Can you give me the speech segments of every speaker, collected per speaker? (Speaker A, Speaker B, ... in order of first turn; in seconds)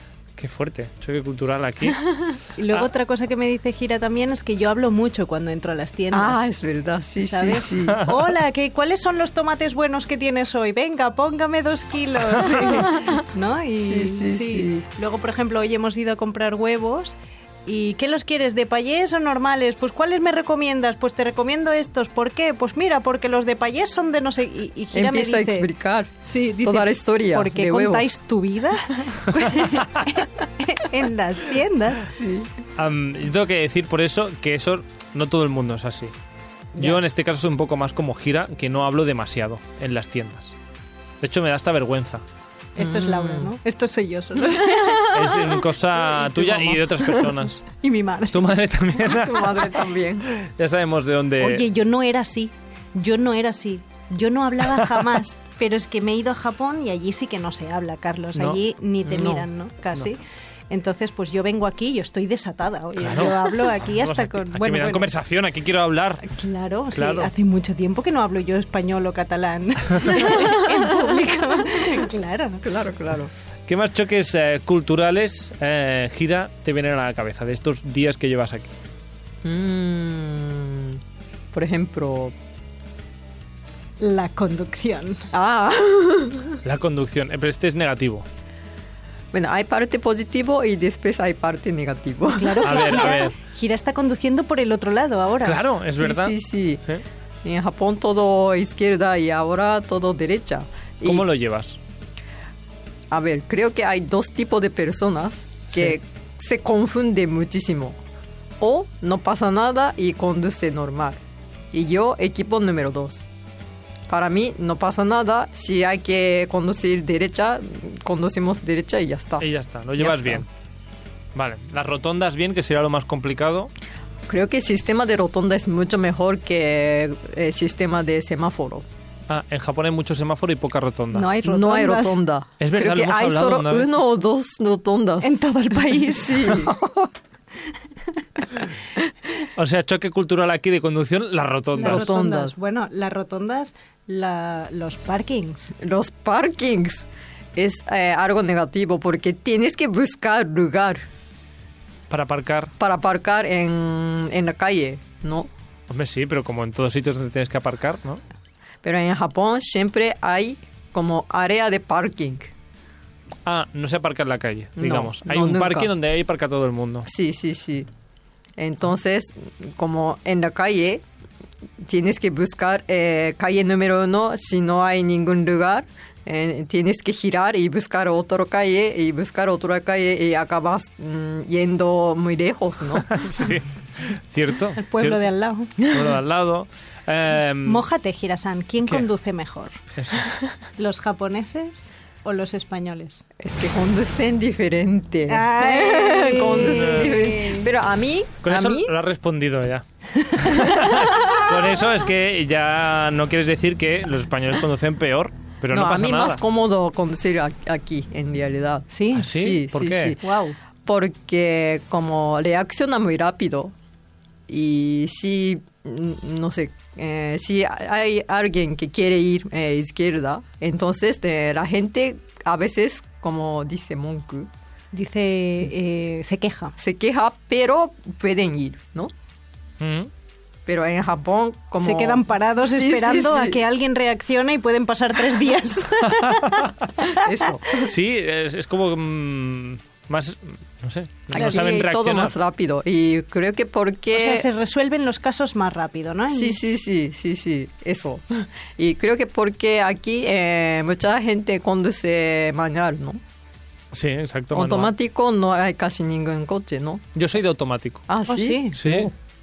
Speaker A: 0.4-2.9, 12.5-12.8, 32.8-36.1, 36.8-40.5, 41.2-42.2, 45.1-47.6, 48.3-51.6, 54.8-55.1, 58.3-58.6, 63.0-66.2, 66.9-67.3, 73.7-78.7, 86.6-88.2, 92.6-93.3, 95.4-97.0, 101.0-101.8, 119.4-120.5, 121.3-123.7, 129.3-131.3, 132.6-134.0, 139.6-142.1, 152.1-152.7, 155.9-158.2, 163.4-167.1, 183.0-185.2, 185.8-187.8, 189.9-190.3, 198.4-206.4, 209.1-210.2, 229.8-230.1, 236.0-236.7, 237.7-242.3, 253.9-254.9, 257.1-258.0, 258.8-259.1
Speaker B: 2.5-6.5, 7.2-25.7, 26.2-32.1, 42.7-48.5, 51.4-60.2, 60.7-65.1, 66.2-72.6, 84.0-85.3, 92.3-95.6, 131.1-132.2, 135.2-136.9, 141.7-145.7, 184.8-185.8, 187.6-189.8, 190.8-193.2, 195.3-197.6, 200.1-201.2, 208.9-209.3, 210.2-210.5, 224.9-226.8, 231.8-237.3, 241.3-241.7, 244.1-246.6, 258.3-258.8
Speaker C: 6.1-8.0, 13.8-14.8, 24.9-26.1, 26.6-28.1, 32.0-32.5, 42.8-43.5, 44.4-45.3, 49.0-50.3, 59.0-59.5, 70.2-71.1, 72.6-73.3, 79.4-81.0, 81.5-82.3, 85.3-86.6, 89.3-93.2, 96.0-96.8, 97.4-101.3, 103.1-108.0, 108.6-111.2, 111.7-113.3, 114.1-120.4, 124.3-128.8, 131.4-136.7, 141.8-142.5, 145.8-151.0, 152.8-155.5, 158.8-162.5, 164.8-165.9, 167.1-167.9, 168.6-171.0, 171.8-183.1, 185.8-186.2, 193.4-198.9, 205.7-213.7, 214.5-224.5, 226.8-229.1, 230.7-233.6, 237.1-237.8, 241.3-244.5, 246.3-253.2, 254.5-257.0, 258.1-259.1